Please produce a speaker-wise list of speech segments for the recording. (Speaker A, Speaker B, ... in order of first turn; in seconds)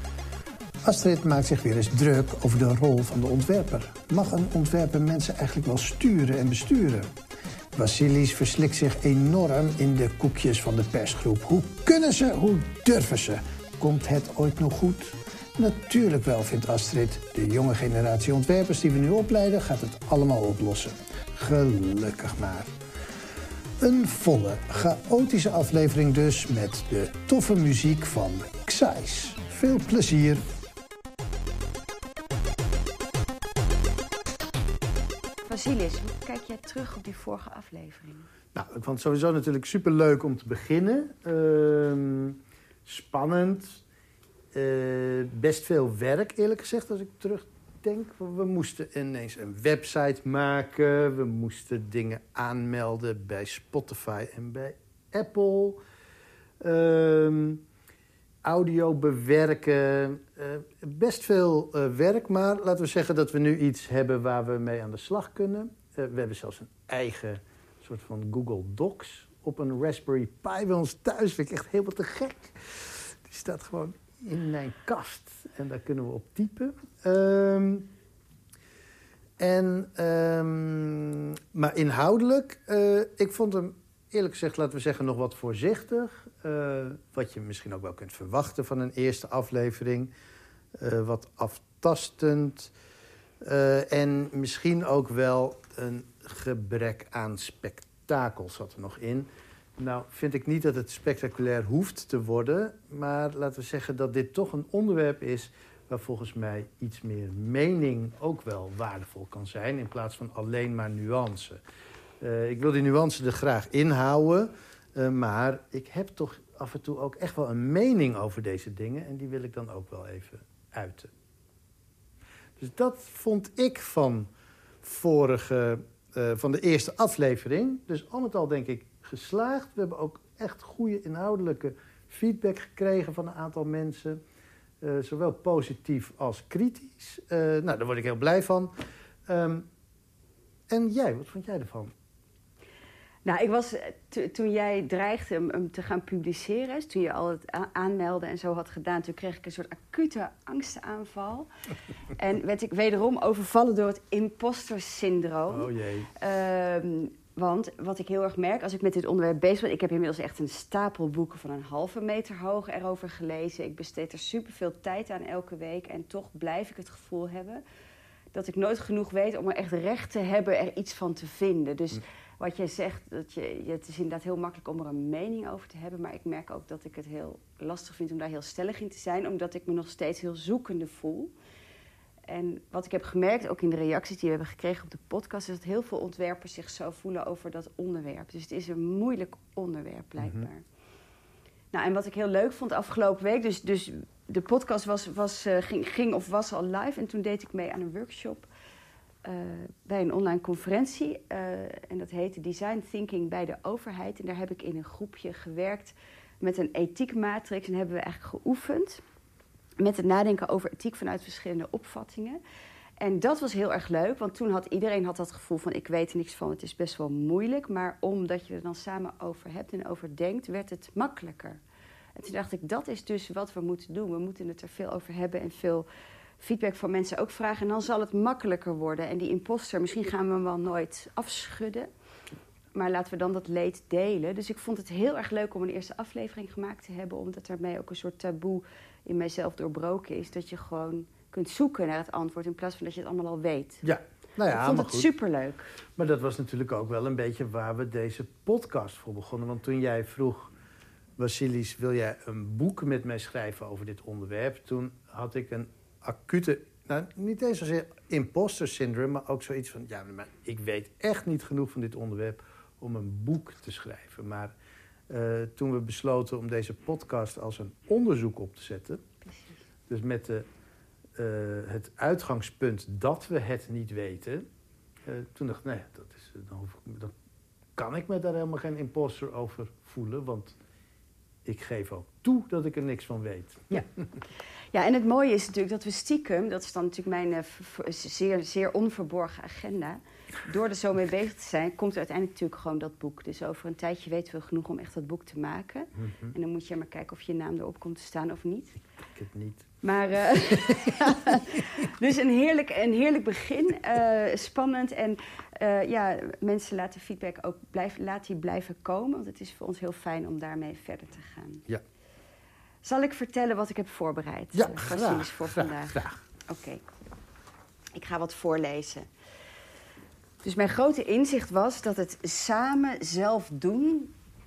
Speaker A: 0.8-7.1, 7.8-22.7, 23.8-30.4, 38.5-43.8, 44.5-55.8, 56.6-57.6, 58.4-77.9, 79.4-90.1, 90.8-92.7, 93.4-111.6, 112.2-121.1, 122.6-124.3, 124.8-134.2, 134.8-138.7, 139.3-139.7, 140.7-141.9, 155.5-156.1, 190.2-190.5, 243.8-245.1, 246.0-250.5, 251.2-264.5, 265.1-269.0, 269.9-270.4, 271.2-274.4, 275.1-277.1, 277.8-280.6, 281.4-284.1, 296.0-296.3, 299.1-299.7, 300.7-301.1, 314.6-316.2
Speaker B: 35.5-38.3, 143.2-151.5, 152.1-167.6, 168.3-181.3, 182.3-190.6, 191.7-198.5, 199.2-209.0, 209.8-212.4, 213.0-221.6, 222.2-225.9, 226.4-231.9, 232.7-243.8, 244.5-245.7, 284.7-298.8, 299.8-311.7, 312.8-316.8, 317.9-319.1, 320.4-324.1